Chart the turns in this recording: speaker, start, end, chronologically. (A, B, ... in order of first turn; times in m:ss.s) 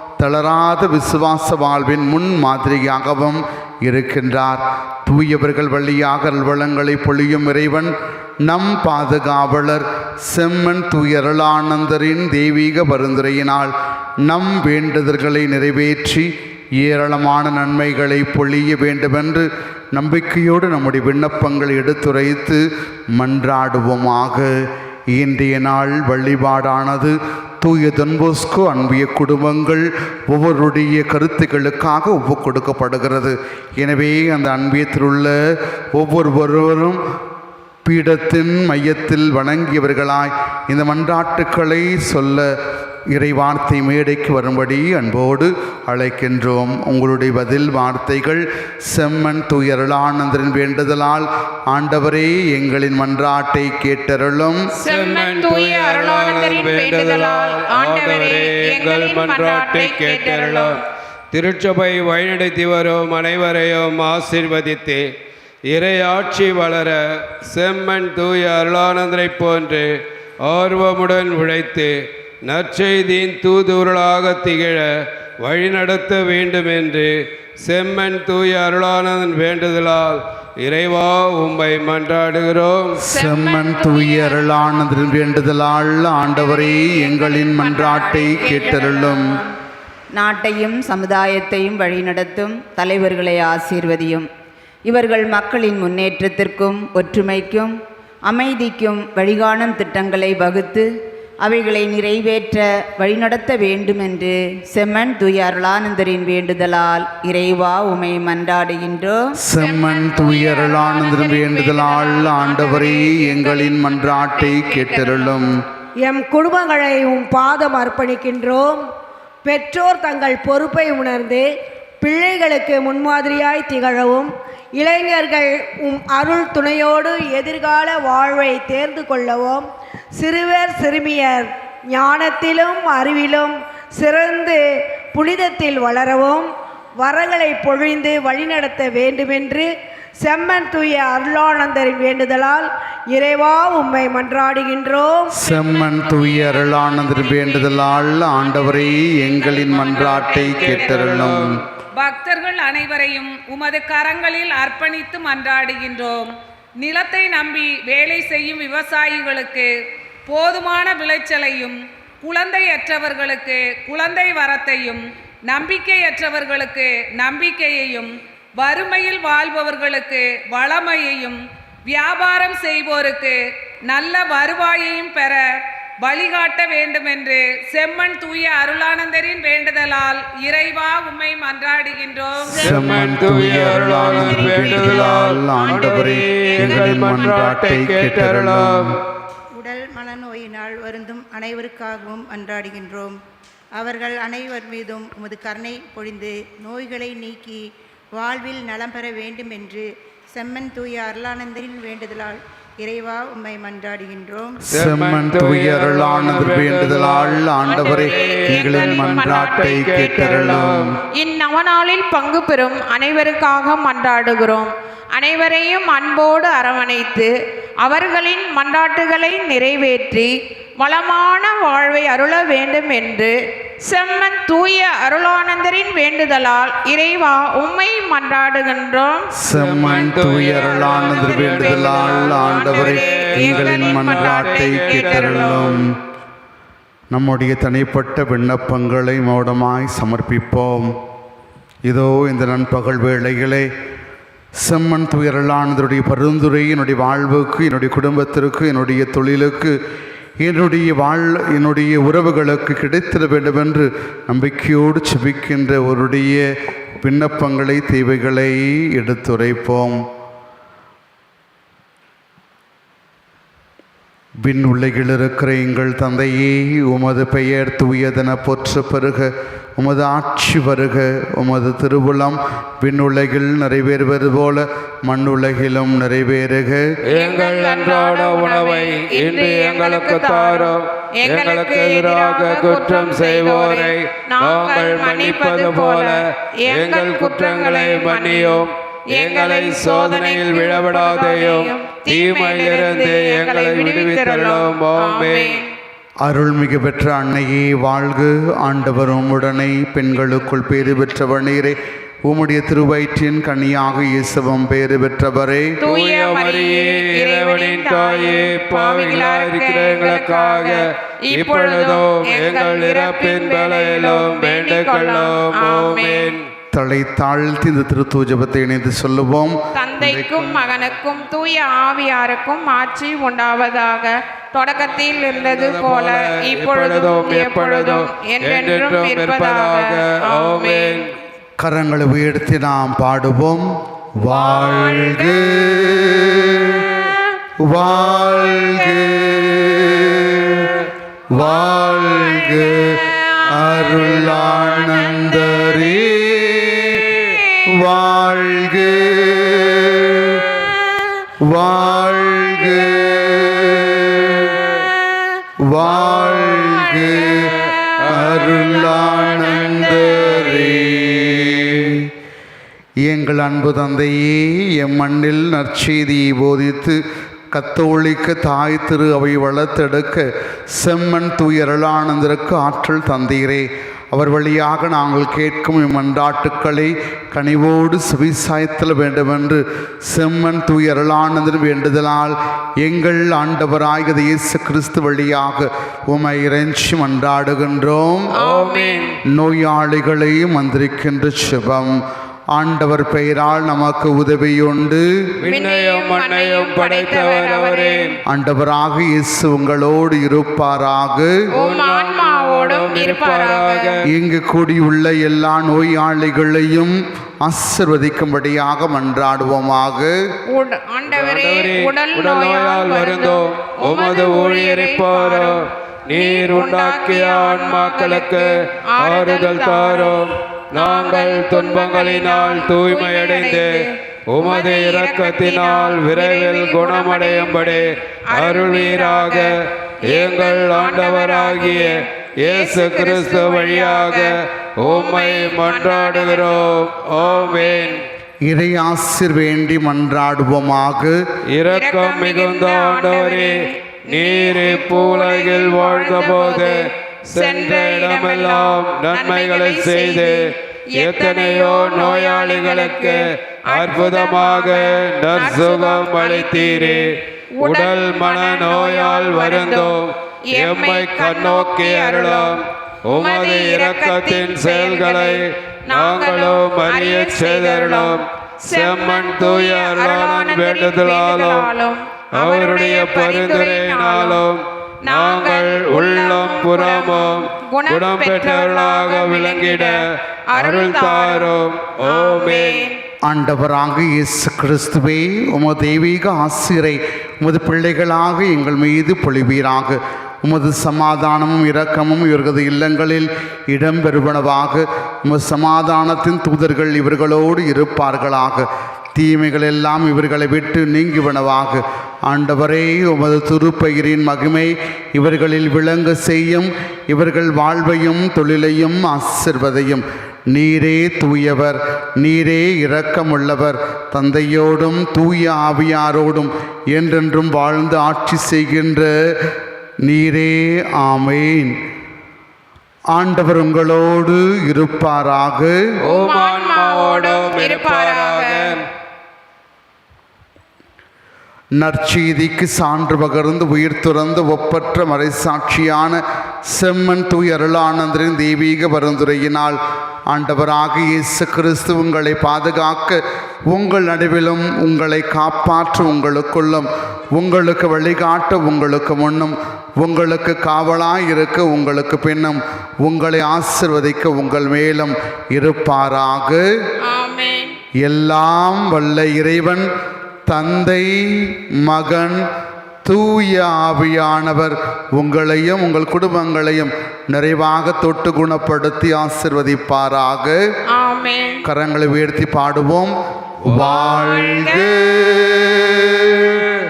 0:00.2-0:22.6 A
0:23.2-0:24.6 A
0:25.1-0:35.4 A
0:35.9-0:37.0 A
0:37.8-0:42.5 A
0:43.1-0:54.7 A
0:54.8-1:00.7 B
0:54.9-1:00.8 C
1:01.3-1:05.1 C
1:05.7-1:09.9 C
1:10.4-1:14.9 C
1:15.4-1:23.0 C
1:23.0-1:29.4 A
1:23.1-1:24.6 B
1:26.3-1:29.4 B
1:30.1-1:34.3 D
1:34.9-1:40.9 D
1:41.4-1:49.2 D
1:49.4-1:55.6 A
1:49.6-1:55.4 B
1:56.0-1:58.8 E
1:59.4-2:01.5 E
2:02.0-2:09.6 E
2:10.2-2:14.6 E
2:15.1-2:16.5 E
2:17.0-2:25.3 E
2:25.3-2:31.6 A
2:29.9-2:31.6 C
2:32.0-2:36.3 F
2:36.8-2:39.7 F
2:40.3-2:55.4 F
2:56.0-3:02.6 F
3:02.5-3:09.0 A
3:02.6-3:09.0 C
3:04.0-3:07.1 B
3:09.6-3:13.2 G
3:13.8-3:17.6 G
3:18.1-3:24.6 G
3:24.7-3:30.9 A
3:24.7-3:31.0 C
3:27.7-3:30.0 B
3:31.2-3:49.3 B
3:49.4-3:55.9 A
3:49.5-3:55.8 C
3:50.7-3:55.8 B
3:57.1-4:00.9 A
4:01.8-4:03.7 A
4:04.6-4:09.8 A
4:10.4-4:16.5 A
4:17.0-4:20.0 A
4:24.4-4:36.9 A
4:37.1-4:55.6 C
4:37.1-4:55.7 B
4:56.2-5:05.8 A
5:05.8-5:16.3 B
5:05.8-5:16.4 C
5:16.7-5:20.7 A
5:19.7-5:31.1 B
5:25.3-5:31.1 C
5:31.6-5:36.9 A
5:34.5-5:35.2 B
5:37.6-5:50.5 A
5:51.4-5:54.5 A
5:55.6-6:02.1 A
5:57.4-5:58.7 C
6:00.2-6:00.6 C
6:03.0-6:07.0 A
6:07.5-6:28.3 A
6:28.4-6:29.1 B
6:28.4-6:29.2 C
6:29.3-6:32.0 A
6:32.5-6:35.1 A
6:35.4-6:38.1 C
6:35.5-6:38.1 B
6:38.3-6:41.3 A
6:41.6-6:44.0 B
6:41.6-6:44.0 C
6:44.1-6:50.2 A
6:50.5-6:55.6 B
6:51.1-6:55.6 C
6:56.1-7:09.5 C
6:56.1-7:09.5 B
7:10.0-7:18.0 B
7:10.1-7:11.9 C
7:12.4-7:18.0 C
7:18.4-7:21.2 A
7:21.5-7:23.5 C
7:21.7-7:40.0 B
7:24.1-7:30.4 C
7:31.0-7:37.1 C
7:37.6-7:51.7 C
7:40.5-7:54.4 B
7:52.4-8:00.0 C
7:55.0-8:00.0 B
8:00.5-8:03.0 B
8:00.6-8:02.9 C
8:03.2-8:39.5 A
8:40.0-8:41.8 A
8:43.1-8:45.8 A
8:46.0-8:48.8 C
8:46.1-8:48.8 B
8:51.8-8:59.8 A
9:00.3-9:16.7 A
9:17.1-9:17.8 B
9:18.0-9:19.9 A
9:20.5-9:22.4 A
9:23.0-9:30.6 A
9:30.9-9:31.6 B
9:31.6-9:36.7 A
9:33.7-9:34.9 B